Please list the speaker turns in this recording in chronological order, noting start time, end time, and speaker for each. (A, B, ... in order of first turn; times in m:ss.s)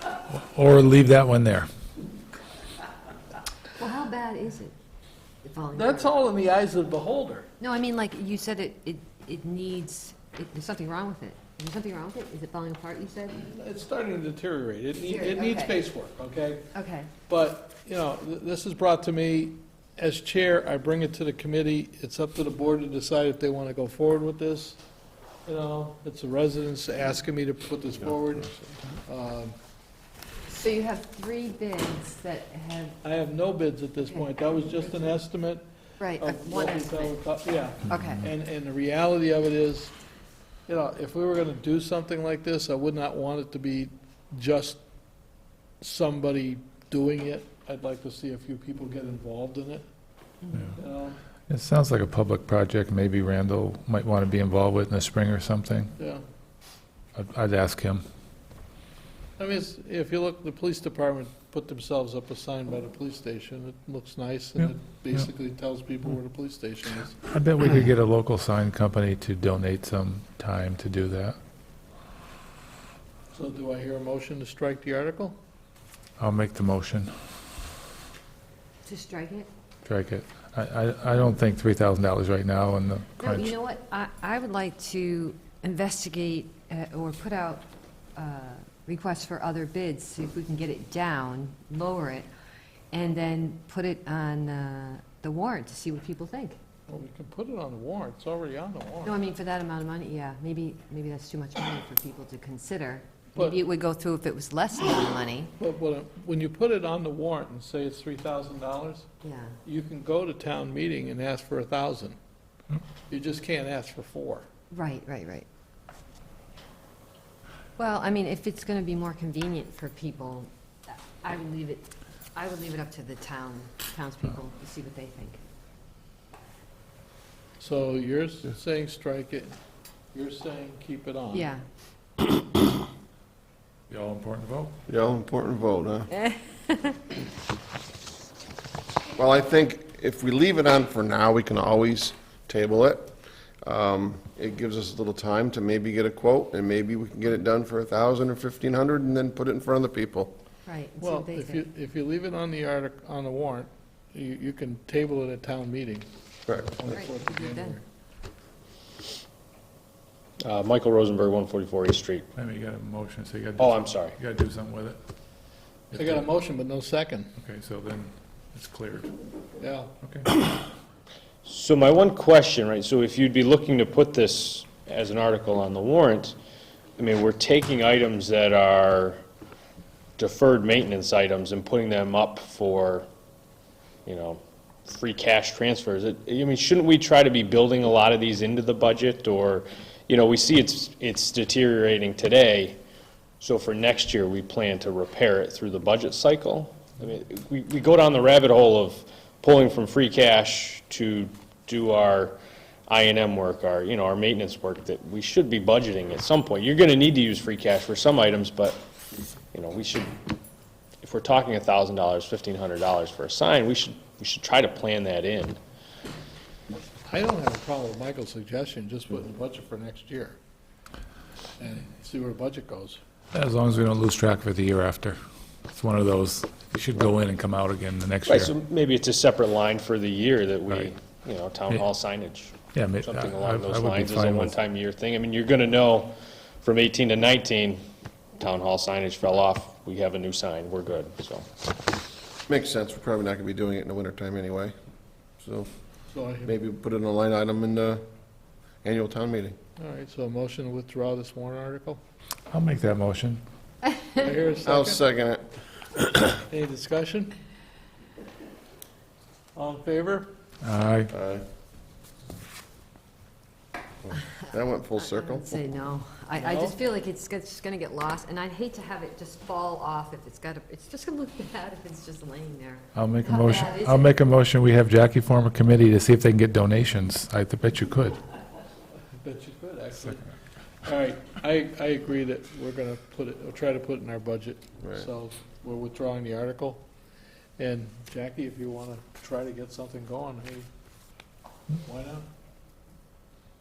0:00.3-0:01.7 A
0:03.8-0:04.7 B
0:05.4-0:06.1 B
0:05.7-0:07.5 C
0:07.6-0:13.4 B
0:13.4-0:16.7 C
0:15.0-0:15.8 B
0:16.7-0:17.1 B
0:17.3-0:24.8 C
0:25.4-0:29.6 C
0:28.3-0:28.6 D
0:30.5-0:33.0 B
0:33.0-0:35.6 C
0:36.0-0:37.1 B
0:36.2-0:39.9 C
0:37.9-0:38.2 B
0:40.7-0:44.8 C
0:45.8-0:49.8 C
0:50.7-0:51.2 C
0:51.5-0:55.9 A
0:56.0-0:56.2 C
0:57.2-0:58.0 A
0:59.4-1:07.2 C
1:07.2-1:11.4 A
1:13.3-1:15.4 C
1:16.2-1:17.1 A
1:18.8-1:19.5 B
1:19.8-1:23.5 A
1:23.2-1:32.3 B
1:32.9-1:36.6 B
1:36.9-1:39.2 C
1:39.0-1:45.5 B
1:45.6-1:49.1 C
1:49.2-1:49.6 B
1:49.6-1:52.2 C
1:53.1-1:54.4 C
1:54.7-1:55.4 B
1:57.8-2:05.4 B
2:07.6-2:09.6 C
2:10.1-2:11.5 C
2:11.3-2:11.6 B
2:13.9-2:14.8 A
2:14.9-2:16.1 D
2:16.5-2:17.0 B
2:19.1-2:30.3 D
2:30.6-2:31.6 B
2:31.0-2:37.8 C
2:36.5-2:36.8 D
2:36.9-2:37.8 B
2:40.4-2:42.2 E
2:42.3-2:45.0 A
2:43.6-2:44.2 E
2:45.9-2:46.2 A
2:45.9-2:47.3 C
2:47.4-2:49.2 A
2:49.6-2:49.9 C
2:50.0-2:50.3 A
2:51.4-2:56.4 E
2:57.0-2:59.2 E
3:00.2-3:03.1 E
3:04.0-3:12.8 E
3:13.4-3:28.8 E
3:29.5-3:30.2 E
3:31.0-3:35.6 E
3:37.0-3:40.4 C
3:41.6-3:43.0 C
3:43.3-3:45.2 A
3:45.7-3:48.5 A
3:48.3-3:57.8 E
3:52.7-3:54.6 A
3:58.4-4:01.4 E
4:02.5-4:04.7 D
4:05.4-4:05.7 D
4:06.1-4:06.6 C
4:06.4-4:08.0 D
4:08.8-4:09.6 D
4:09.8-4:12.0 C
4:12.5-4:13.4 A
4:14.2-4:15.0 C
4:14.6-4:15.5 D
4:16.5-4:17.3 C
4:19.5-4:20.3 C
4:20.6-4:21.1 A
4:21.1-4:21.4 D
4:24.0-4:25.6 D
4:25.0-4:34.2 B
4:26.4-4:26.8 C
4:32.9-4:38.2 A
4:39.2-4:40.2 C
4:40.8-4:46.8 C
4:47.6-4:50.7 C
4:51.8-4:52.3 C